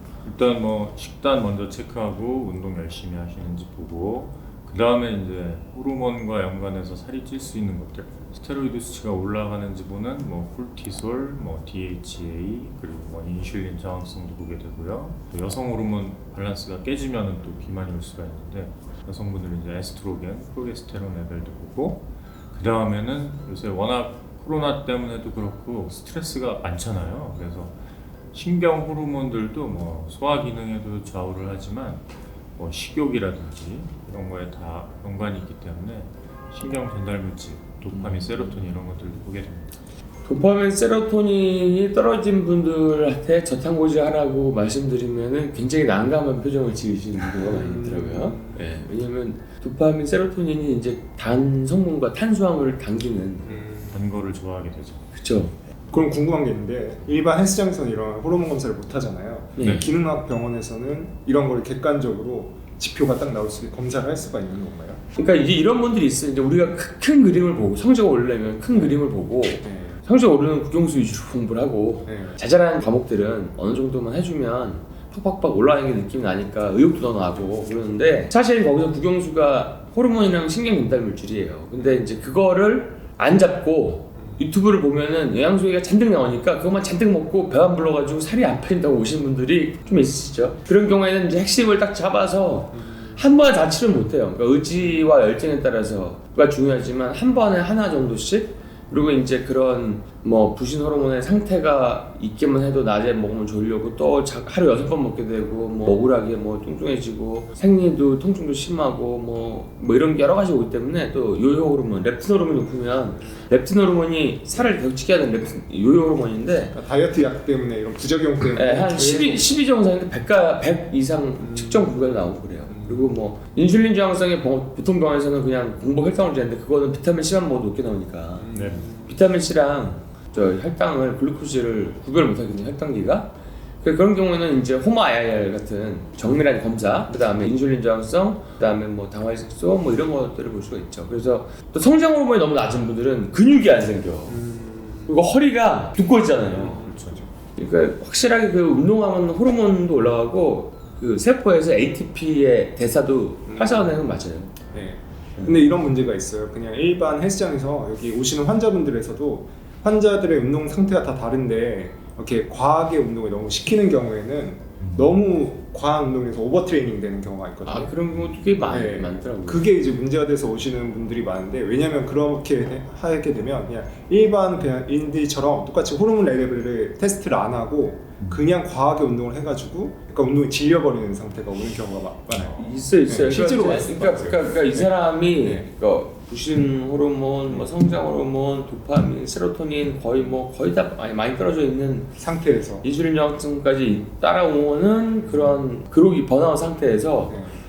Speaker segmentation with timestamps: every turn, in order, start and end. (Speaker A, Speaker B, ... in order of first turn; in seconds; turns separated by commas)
Speaker A: 0.2-27.7, Speaker A: 28.3-32.0, Speaker A: 32.6-39.7, Speaker B: 37.9-38.6, Speaker B: 40.2-53.6, Speaker C: 47.4-48.6, Speaker C: 53.5-54.0, Speaker A: 53.9-55.0, Speaker B: 55.1-55.5, Speaker C: 55.9-65.0, Speaker B: 59.6-59.9, Speaker A: 59.6-59.9, Speaker B: 65.2-116.7, Speaker C: 68.8-69.0, Speaker C: 69.6-70.0, Speaker C: 72.0-72.4, Speaker C: 81.8-82.0, Speaker C: 84.2-84.5, Speaker C: 92.7-93.2, Speaker C: 94.8-95.0, Speaker C: 116.7-119.5, Speaker B: 118.5-144.4, Speaker C: 121.4-122.0, Speaker C: 122.7-123.2, Speaker C: 128.4-129.2, Speaker A: 128.5-128.9, Speaker C: 144.3-145.2, Speaker B: 145.1-146.9, Speaker C: 146.5-147.3, Speaker A: 146.8-147.1, Speaker B: 147.5-154.6, Speaker C: 153.5-154.0, Speaker C: 154.7-167.9, Speaker B: 167.6-169.7, Speaker C: 168.6-184.9, Speaker A: 178.2-178.5, Speaker B: 182.4-192.2, Speaker C: 185.4-185.7, Speaker C: 192.2-192.8, Speaker B: 192.8-197.4, Speaker C: 197.3-197.6